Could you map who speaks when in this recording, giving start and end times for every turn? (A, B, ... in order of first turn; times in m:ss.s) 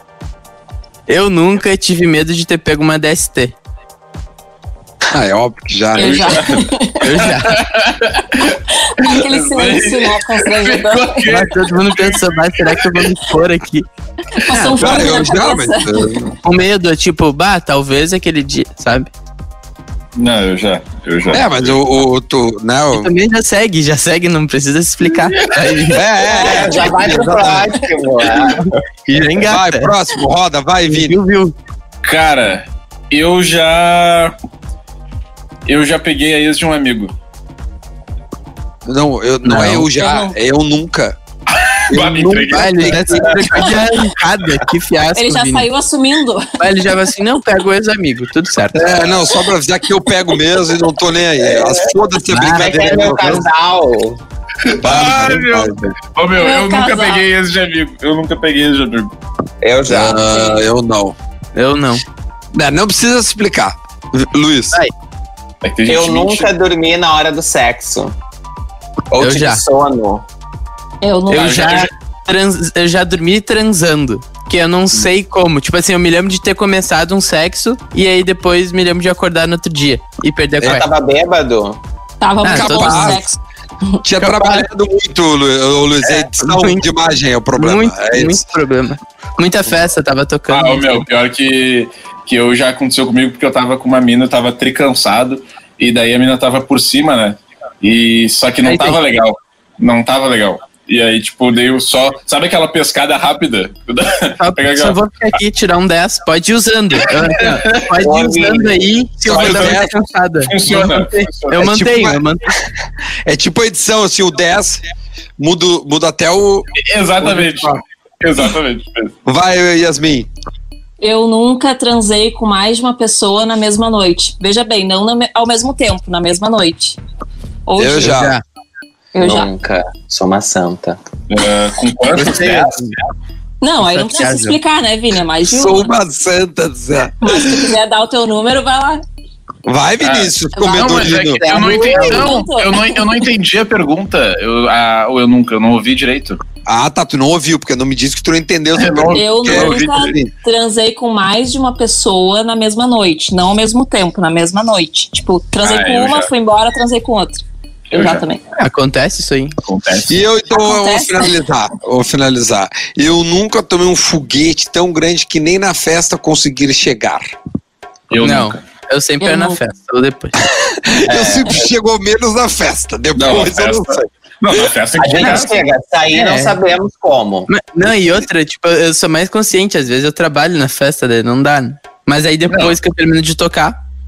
0:01.1-0:03.6 A
0:05.1-0:06.4 B
0:06.0-0:07.2 C
0:06.0-0:13.1 D
0:07.0-0:07.6 A
0:08.7-0:11.3 C
0:11.3-0:13.9 A
0:14.3-0:16.1 C
0:14.5-0:15.1 A
0:14.7-0:16.4 B
0:16.4-0:19.1 A
0:20.2-0:21.8 D
0:21.3-0:23.1 B
0:22.9-0:26.0 A
0:25.9-0:27.7 B
0:26.2-0:28.6 E
0:28.6-0:29.9 A
0:29.1-0:31.2 B
0:30.9-0:31.5 A
0:32.0-0:34.4 D
0:35.7-0:37.1 D
0:38.9-0:41.2 B
0:39.4-0:39.9 A
0:39.9-0:40.4 C
0:41.5-0:43.7 D
0:41.9-0:43.7 B
0:42.5-0:45.7 A
0:45.2-0:46.6 C
0:46.6-0:48.9 A
0:48.7-0:53.4 B
0:51.4-0:51.9 E
0:52.3-0:53.4 A
0:52.5-0:54.2 E
0:54.6-0:59.1 D
0:54.8-0:55.9 B
0:56.4-0:57.2 C
0:59.6-1:00.3 E
0:59.9-1:01.2 B
1:01.6-1:02.0 A
1:02.5-1:04.8 B
1:05.6-1:06.5 D
1:05.9-1:08.1 E
1:09.1-1:10.2 E
1:09.2-1:09.6 A
1:11.0-1:11.9 C
1:11.3-1:20.8 A
1:11.3-1:11.9 D
1:20.6-1:21.8 E
1:22.2-1:24.3 C
1:22.4-1:23.2 A
1:22.5-1:23.2 B
1:24.0-1:28.4 B
1:26.0-1:26.9 A
1:27.6-1:31.0 A
1:30.5-1:45.0 D
1:38.6-1:39.0 A
1:44.4-1:52.5 A
1:47.5-1:47.8 D
1:48.0-1:48.8 E
1:49.2-1:49.9 B
1:49.3-1:49.9 D
1:50.4-1:51.7 D
1:51.6-1:52.2 B
1:53.3-1:54.8 B
1:55.4-1:56.7 B
1:56.8-1:59.1 D
1:57.2-1:57.8 B
1:59.3-2:00.3 B
2:01.0-2:07.0 C
2:07.7-2:08.1 C
2:07.8-2:08.3 B
2:07.9-2:08.4 A
2:09.1-2:09.5 C
2:09.2-2:11.0 E
2:11.3-2:12.8 D
2:12.2-2:12.7 B
2:12.2-2:12.9 A
2:13.6-2:15.9 C
2:13.9-2:14.6 A
2:15.4-2:17.7 B
2:17.2-2:19.0 C
2:19.6-2:21.4 B
2:20.0-2:26.4 D
2:20.6-2:23.0 C
2:26.6-2:30.3 B
2:28.7-2:30.1 D
2:29.1-2:38.4 C
2:35.6-2:36.3 D
2:37.9-2:38.2 D
2:38.6-2:39.6 A
2:39.6-2:40.2 D
2:40.1-2:47.3 B
2:40.5-2:41.3 C
2:48.1-2:48.6 D
2:48.2-2:50.4 A
2:49.2-2:49.6 C
2:50.4-2:54.1 B
2:51.1-2:51.6 E
2:53.1-2:55.6 D
2:54.9-2:57.5 E
2:55.1-2:55.6 A
2:56.1-2:56.6 A
2:57.5-3:03.8 A
3:02.5-3:02.8 D